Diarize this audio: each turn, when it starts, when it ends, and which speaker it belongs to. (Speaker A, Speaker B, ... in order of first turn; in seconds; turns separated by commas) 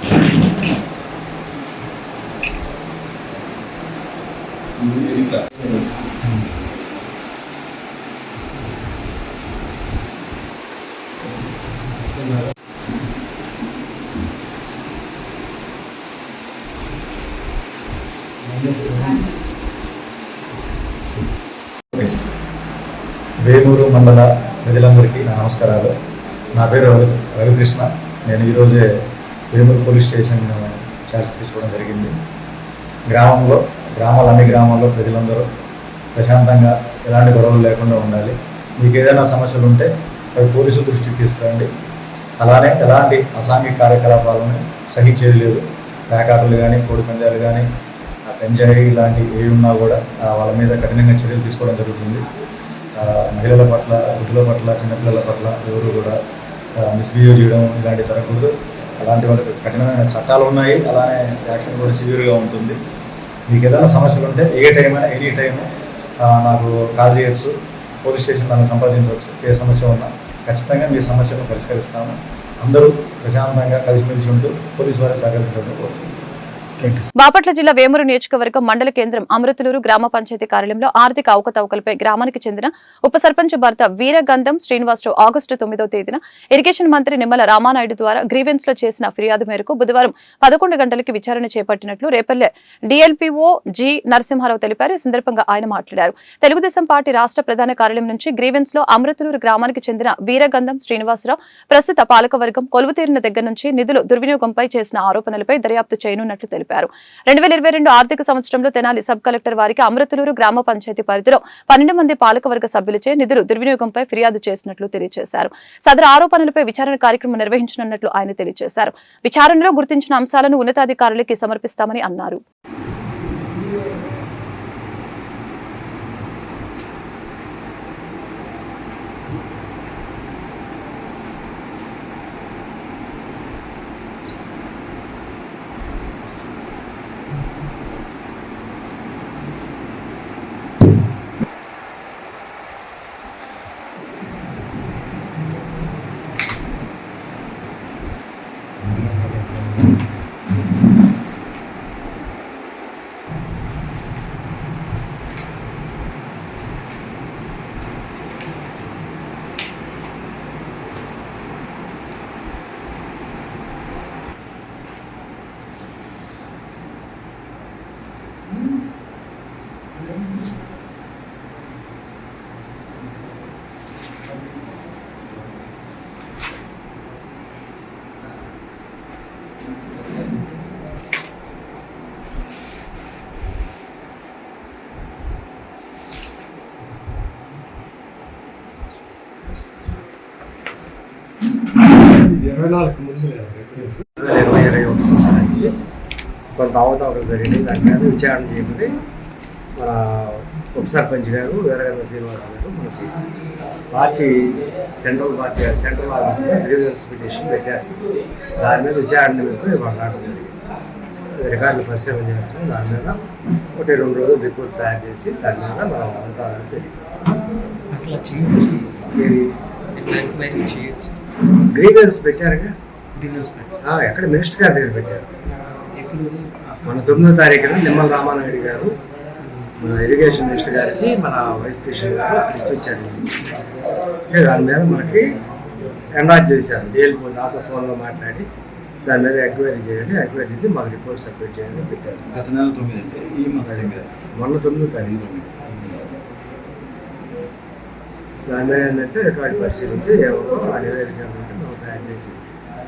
Speaker A: 21.9-22.2, Speaker A: 23.4-25.9, Speaker A: 26.5-28.9, Speaker A: 29.5-32.1, Speaker A: 33.1-35.5, Speaker A: 36.1-41.7, Speaker A: 42.4-47.7, Speaker A: 48.3-52.2, Speaker A: 53.0-56.2, Speaker A: 56.8-62.8, Speaker A: 63.5-65.7, Speaker A: 66.2-67.5, Speaker A: 68.0-76.1, Speaker B: 77.2-122.4, Speaker C: 192.0-195.7, Speaker C: 196.6-199.0, Speaker C: 199.8-203.2, Speaker C: 203.9-207.9, Speaker C: 208.6-210.5, Speaker C: 211.3-213.2, Speaker C: 213.7-217.4, Speaker D: 217.9-219.0, Speaker C: 219.2-219.5, Speaker D: 220.0-221.2, Speaker C: 221.7-222.7, Speaker D: 223.1-223.8, Speaker C: 223.8-225.3, Speaker D: 226.0-227.3, Speaker C: 226.9-228.9, Speaker C: 229.8-233.3, Speaker C: 234.3-235.3, Speaker C: 236.1-238.5, Speaker C: 239.1-242.3, Speaker E: 242.3-244.1, Speaker C: 243.7-245.2, Speaker E: 245.0-246.0, Speaker C: 248.5-252.4